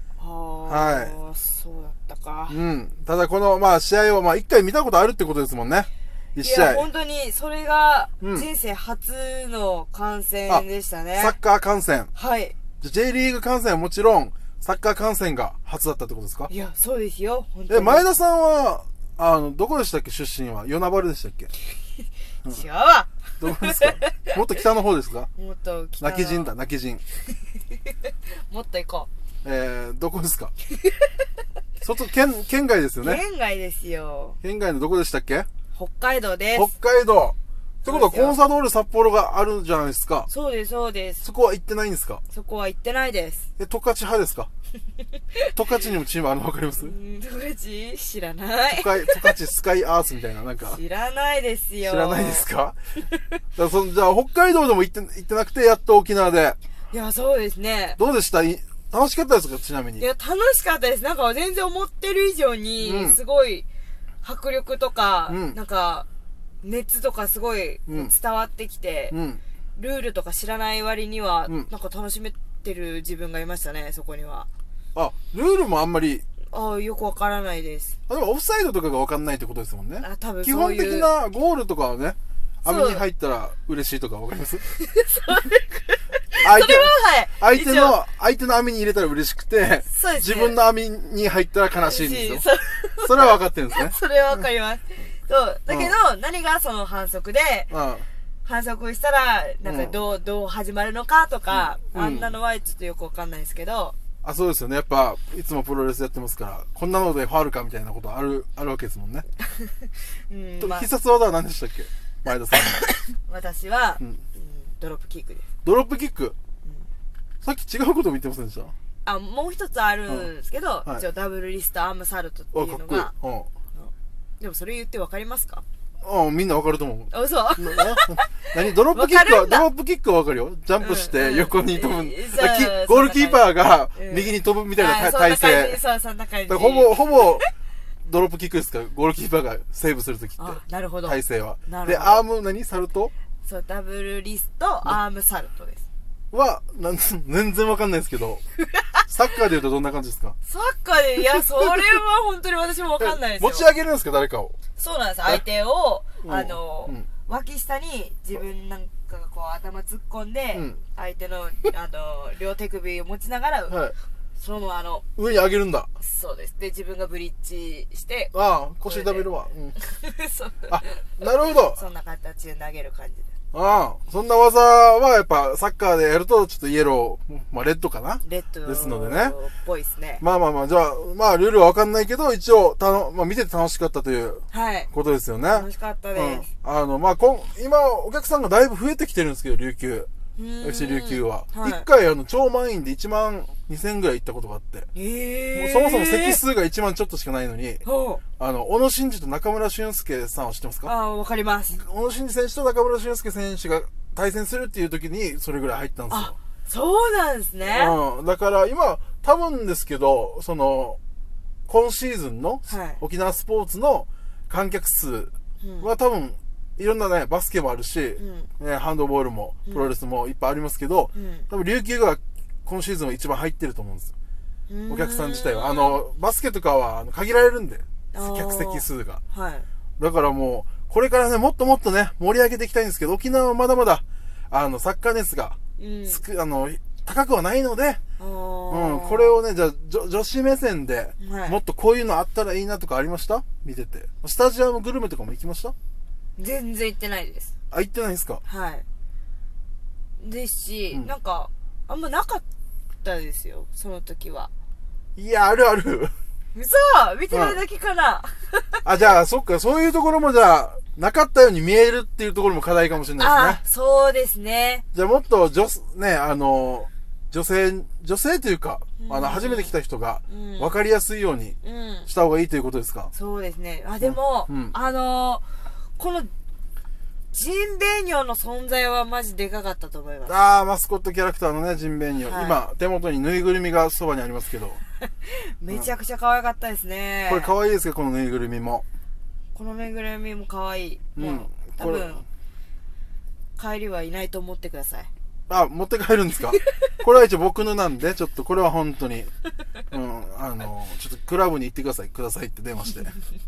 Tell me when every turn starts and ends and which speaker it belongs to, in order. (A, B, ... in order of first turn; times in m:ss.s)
0:00.2-0:02.6 A
0:00.7-0:01.2 B
0:02.5-0:06.9 B
0:06.4-0:11.4 A
0:08.2-0:08.5 B
0:11.2-0:12.1 B
0:12.1-0:12.5 A
0:12.8-0:16.5 B
0:16.5-0:18.0 A
0:17.7-0:21.5 B
0:22.4-0:24.3 A
0:23.4-0:25.3 B
0:25.4-0:26.5 A
0:26.0-0:27.0 B
0:28.3-0:29.1 A
0:29.4-0:30.5 B
0:31.8-0:33.2 B
0:33.0-0:34.4 A
0:34.4-0:35.5 B
0:35.7-0:36.7 A
0:36.5-0:40.3 B
0:37.8-0:38.4 A
0:40.3-0:41.2 A
0:41.2-0:42.2 B
0:42.3-0:43.5 A
0:43.6-0:44.5 B
0:45.5-0:46.9 B
0:46.8-0:49.3 A
0:48.7-0:50.8 B
0:50.6-0:52.5 A
0:51.8-0:52.8 B
0:53.6-0:56.6 B
0:56.9-0:58.0 A
0:58.0-1:00.1 B
1:00.0-1:03.6 A
1:02.8-1:03.2 B
1:04.2-1:06.1 A
1:05.3-1:05.6 B
1:06.6-1:09.2 A
1:07.9-1:08.1 B
1:09.1-1:09.4 B
1:09.8-1:14.5 A
1:14.9-1:16.2 B
1:16.5-1:18.0 A
1:18.1-1:24.6 B
1:20.0-1:21.1 A
1:22.6-1:23.0 A
1:24.8-1:28.0 A
1:26.4-1:32.4 B
1:29.9-1:30.6 A
1:31.7-1:37.7 A
1:33.0-1:34.0 B
1:35.7-1:36.0 B
1:37.7-1:38.1 B
1:38.4-1:44.0 A
1:39.6-1:39.9 B
1:41.5-1:42.3 B
1:44.2-1:49.2 B
1:49.4-1:50.9 A
1:50.6-1:52.9 B
1:53.3-1:55.4 A
1:55.6-1:56.4 B
1:57.4-1:58.7 B
1:59.0-2:03.1 A
2:02.5-2:03.5 B
2:03.8-2:05.6 A
2:06.0-2:15.8 B
2:07.1-2:09.7 A
2:10.8-2:17.5 A
2:16.5-2:17.4 B
2:18.0-2:23.1 B
2:20.4-2:22.2 A
2:23.4-2:25.8 A
2:26.3-2:28.4 B
2:29.1-2:30.4 B
2:30.4-2:33.7 A
2:33.0-2:34.6 B
2:34.8-2:45.0 A
2:36.2-2:37.1 B
2:40.5-2:40.8 B
2:43.7-2:43.9 B
2:45.2-2:45.9 B
2:46.0-2:51.0 A
2:48.3-2:49.8 B
2:50.7-2:51.8 B
2:51.7-2:53.3 A
2:53.5-2:59.4 B
2:58.2-3:00.2 A
3:00.2-3:10.1 B
3:04.5-3:04.9 A
3:05.5-3:06.5 A
3:10.4-3:11.9 A
3:10.6-3:14.9 B
3:14.9-3:16.4 A
3:15.5-3:17.8 B
3:17.8-3:18.2 A
3:18.4-3:20.9 B
3:20.8-3:21.8 A
3:21.7-3:26.3 B
3:26.1-3:28.0 A
3:27.6-3:31.0 B
3:31.7-3:44.1 B
3:32.6-3:33.0 A
3:35.6-3:35.9 A
3:38.2-3:38.5 A
3:41.1-3:41.4 A
3:44.7-3:46.0 A
3:44.9-3:49.2 B
3:48.1-3:49.6 A
3:50.0-3:58.0 B
3:55.8-3:56.2 A
3:58.2-3:59.4 A
3:58.7-4:05.8 B
4:01.2-4:01.6 A
4:06.4-4:07.5 A
4:07.7-4:08.4 B
4:08.4-4:08.8 A
4:10.2-4:12.4 A
4:13.0-4:14.5 A
4:15.2-4:16.1 B
4:16.5-4:18.8 A
4:17.3-4:17.6 B
4:18.8-4:23.6 B
4:23.2-4:24.8 A
4:24.9-4:33.1 B
4:29.0-4:29.8 A
4:30.3-4:30.7 A
4:31.6-4:32.1 A
4:33.1-4:36.3 A
4:34.0-4:34.7 B
4:37.3-4:40.4 A
4:40.3-4:44.8 B
4:42.2-4:42.6 A
4:45.2-4:47.5 A
4:47.3-4:48.8 B
4:49.6-4:52.2 A
4:51.2-4:52.2 B
4:53.6-4:55.1 A
4:55.5-4:59.3 B
4:59.9-5:03.1 B